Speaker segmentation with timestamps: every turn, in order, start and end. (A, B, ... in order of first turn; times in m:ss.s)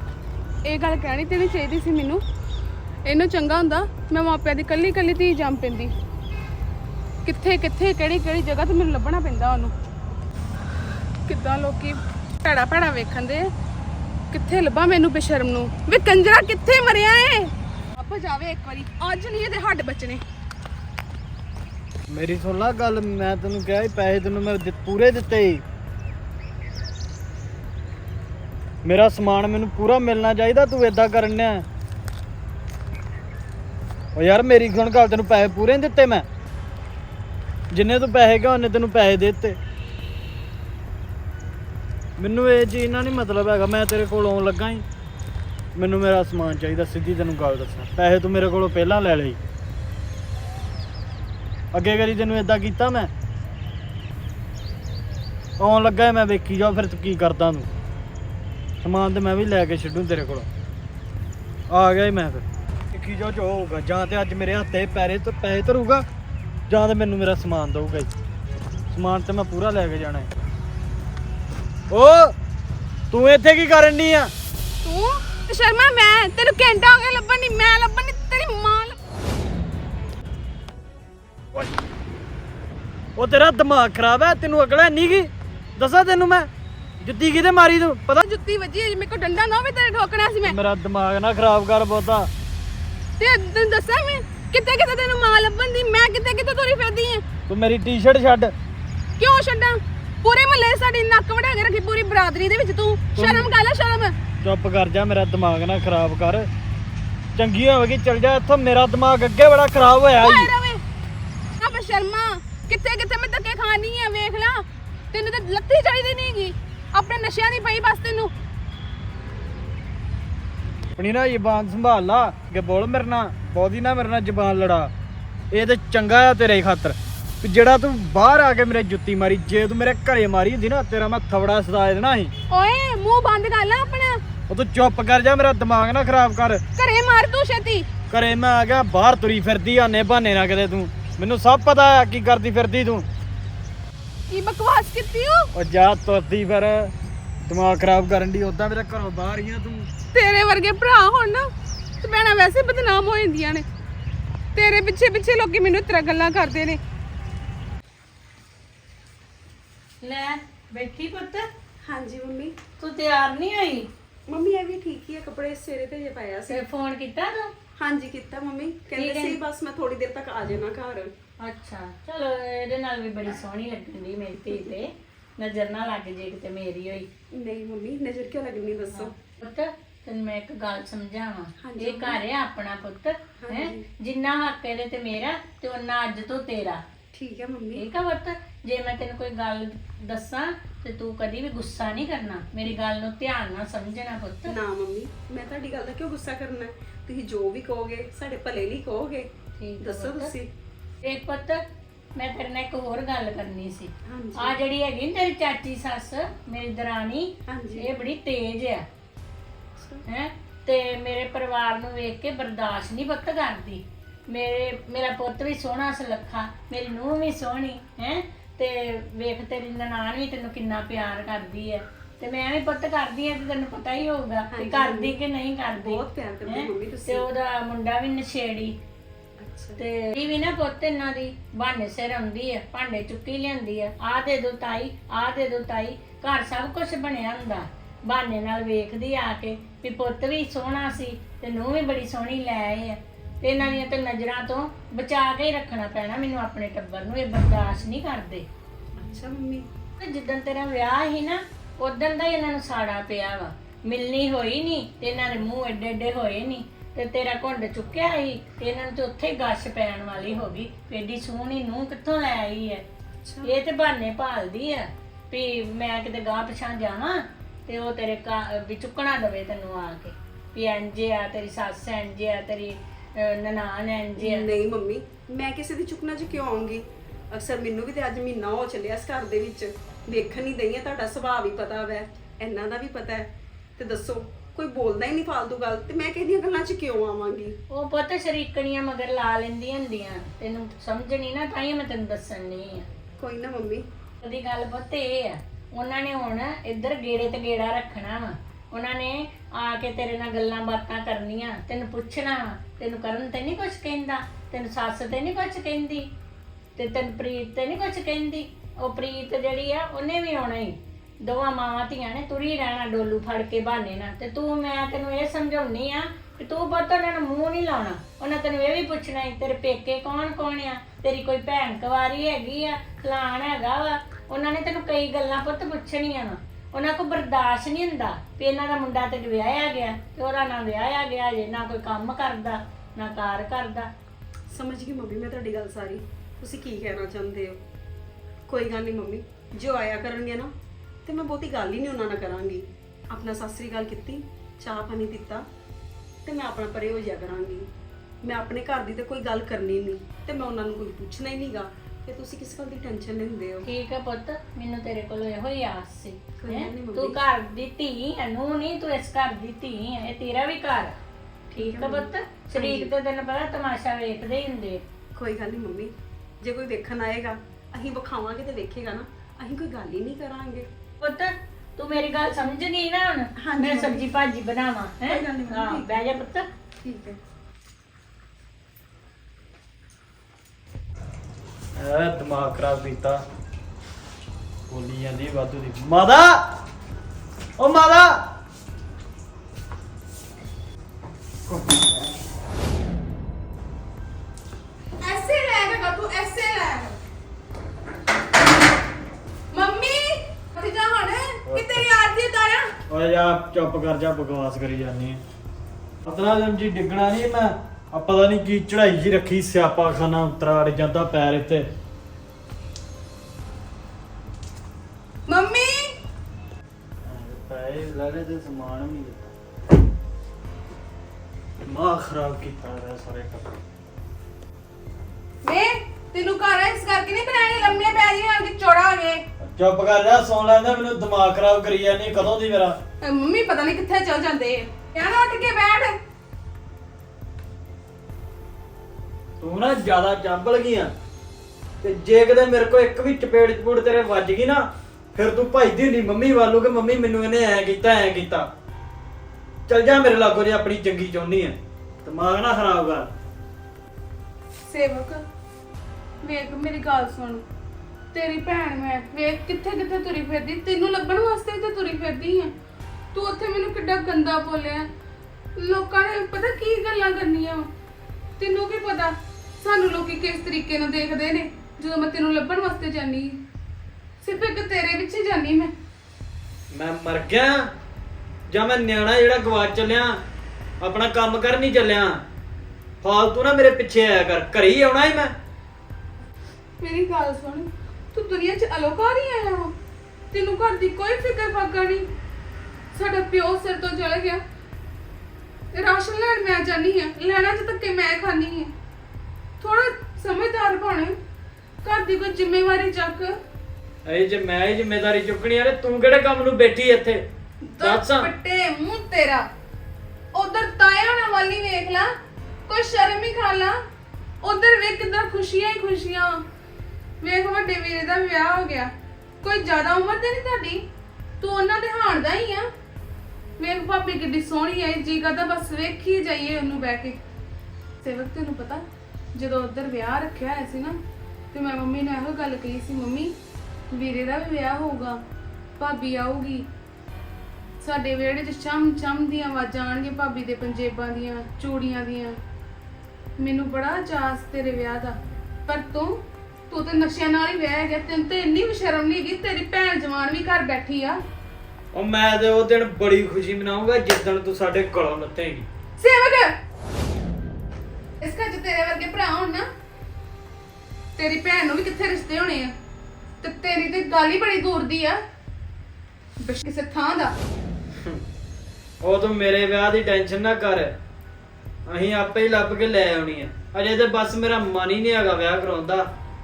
0:00.6-0:02.2 A
0:03.0-0:05.9 A
0:07.2-0:09.7 A
0:11.2-0:13.5 A
0:14.3-0:20.2 A
0:22.1-0:25.6 B
0:28.8-0:31.6 B
0:34.1-0:36.2 B
0:37.7-0:39.6 B
0:42.2-0:44.8 B
0:45.7-0:49.4 B
0:51.7-0:53.1 B
0:55.6-0:57.7 B
0:58.8-1:00.5 B
1:01.7-1:06.0 B
1:06.7-1:08.1 B
1:08.9-1:10.3 B
1:11.9-1:12.3 B
1:13.1-1:14.3 B
1:14.8-1:19.0 A
1:23.2-1:26.5 B
1:27.0-1:28.2 B
1:28.2-1:30.6 A
1:30.4-1:32.3 B
1:33.2-1:37.2 A
1:37.5-1:38.5 B
1:39.2-1:44.2 A
1:43.1-1:43.5 B
1:44.4-1:46.5 B
1:47.4-1:50.5 B
1:50.2-1:50.8 A
1:51.6-1:58.3 A
2:01.0-2:04.9 B
2:05.5-2:12.3 B
2:12.5-2:14.2 A
2:14.5-2:16.6 B
2:16.8-2:17.9 A
2:18.1-2:23.0 B
2:24.3-2:25.5 A
2:25.5-2:26.9 B
2:27.5-2:29.9 B
2:30.1-2:33.6 A
2:34.5-2:36.8 A
2:40.0-2:41.4 C
2:41.8-2:42.6 D
2:42.8-2:43.9 C
2:44.3-2:46.6 D
2:46.5-2:47.5 C
2:47.8-2:51.1 D
2:49.0-2:49.4 C
2:51.4-2:57.1 C
2:57.3-2:59.1 D
2:59.0-3:06.8 C
3:01.6-3:02.2 D
3:03.4-3:03.8 D
3:07.1-3:07.8 D
3:07.8-3:14.5 C
3:14.4-3:19.3 D
3:19.6-3:20.3 C
3:19.8-3:20.5 D
3:21.0-3:21.6 C
3:22.2-3:28.8 C
3:24.0-3:24.6 D
3:27.5-3:27.9 D
3:29.8-3:30.0 D
3:30.1-3:48.7 C
3:44.5-3:45.1 D
3:45.8-3:47.3 D
3:49.4-3:49.8 D
3:49.8-4:08.4 C
4:09.0-4:09.7 D
4:10.0-4:22.8 C
4:23.2-4:23.5 D
4:23.4-4:34.4 C
4:34.2-4:47.5 D
4:47.7-4:52.8 C
4:53.2-4:53.8 D
4:54.2-5:06.1 C
5:06.8-5:33.9 C
5:34.5-5:37.6 D
5:38.5-5:40.5 D
5:41.0-5:45.4 D
5:46.2-5:47.6 D
5:48.2-5:53.6 D
5:53.6-6:01.0 C
5:56.4-5:57.2 D
6:01.5-6:02.9 D
6:01.6-6:04.8 C
6:05.1-6:10.7 D
6:11.0-6:16.5 C
6:13.4-6:14.0 D
6:15.0-6:16.0 D
6:16.8-6:17.2 D
6:21.8-6:23.2 B
6:24.7-6:26.4 B
6:27.6-6:28.2 B
6:31.5-6:31.9 B
6:35.0-6:37.0 A
6:39.5-6:42.7 A
6:41.4-6:41.9 B
6:42.9-6:45.2 B
6:46.0-6:51.6 B
6:55.3-6:55.9 A
6:57.0-6:59.3 B
7:01.6-7:03.6 B
7:05.4-7:09.2 A
7:09.4-7:12.8 B
7:13.0-7:16.0 A
7:19.4-7:20.9 B
7:21.8-7:28.5 B
7:29.7-7:33.1 B
7:34.6-7:35.2 A
7:36.2-7:37.4 A
7:38.1-7:42.5 A
7:43.1-7:44.9 A
7:45.6-7:47.7 A
7:48.4-7:53.4 A
7:54.2-7:55.7 A
7:56.7-7:57.6 B
7:58.5-8:00.2 B
8:00.8-8:02.2 B
8:03.0-8:05.3 B
8:06.8-8:09.7 A
8:10.3-8:12.0 A
8:12.9-8:14.4 A
8:15.7-8:18.7 A
8:19.6-8:21.1 A
8:21.8-8:23.3 A
8:24.0-8:27.2 B
8:27.7-8:29.4 A
8:27.8-8:28.3 B
8:30.3-8:32.1 A
8:32.7-8:33.8 A
8:34.4-8:36.4 A
8:37.2-8:40.8 A
8:41.4-8:42.7 A
8:43.6-8:47.2 A
8:48.0-8:48.8 A
8:49.3-8:51.0 A
8:51.5-8:53.3 A
8:53.9-8:55.2 A
8:55.8-8:56.7 A
8:57.8-9:02.4 A
9:03.4-9:05.2 A
9:05.7-9:11.2 A
9:11.9-9:15.7 B
9:16.0-9:16.5 A
9:18.2-9:19.7 A
9:21.2-9:22.7 A
9:23.4-9:25.2 A
9:26.4-9:27.3 A
9:29.0-9:30.9 B
9:31.9-9:36.1 B